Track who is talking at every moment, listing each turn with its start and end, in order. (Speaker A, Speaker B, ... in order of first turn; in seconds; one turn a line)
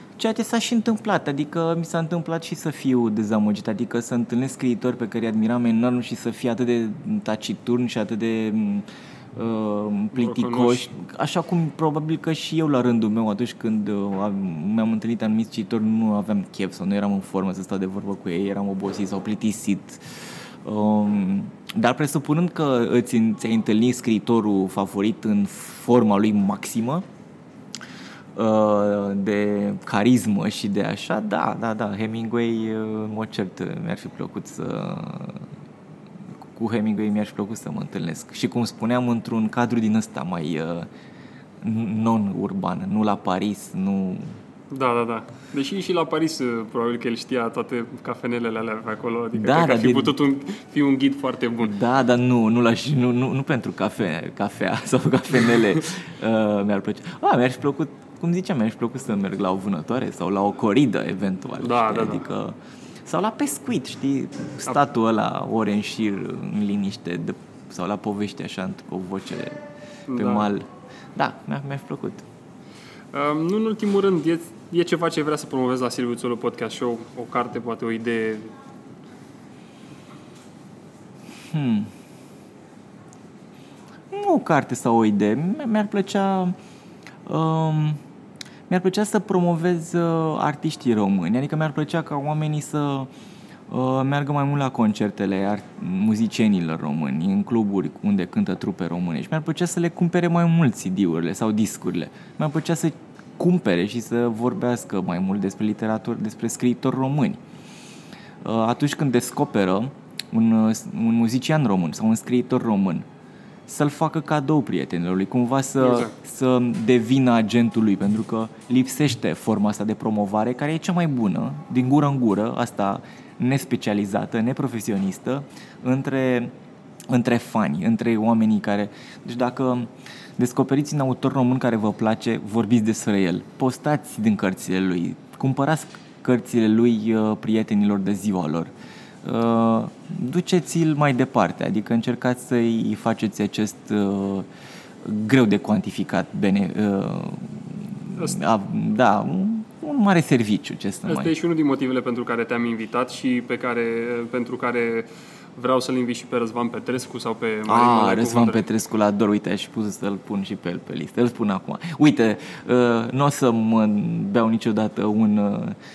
Speaker A: 0.2-20.0
Speaker B: 10.1-10.9
Speaker A: 20.6-27.1
Speaker A: 28.4-35.5
Speaker A: 36.5-40.9
Speaker A: 41.6-44.4
Speaker B: 44.7-51.8
Speaker A: 49.4-50.1
Speaker A: 51.6-69.6
Speaker B: 61.6-62.2
Speaker B: 70.1-70.5
Speaker A: 70.2-72.3
Speaker B: 73.1-78.6
Speaker A: 81.5-81.9
Speaker A: 84.1-86.6
Speaker A: 87.2-88.0
Speaker A: 88.7-93.1
Speaker A: 93.7-107.4
Speaker A: 108.4-113.1
Speaker A: 113.7-126.5
Speaker B: 115.8-116.1
Speaker A: 127.1-144.5
Speaker A: 145.0-151.3
Speaker B: 148.2-148.4
Speaker B: 151.1-158.7
Speaker A: 157.7-165.8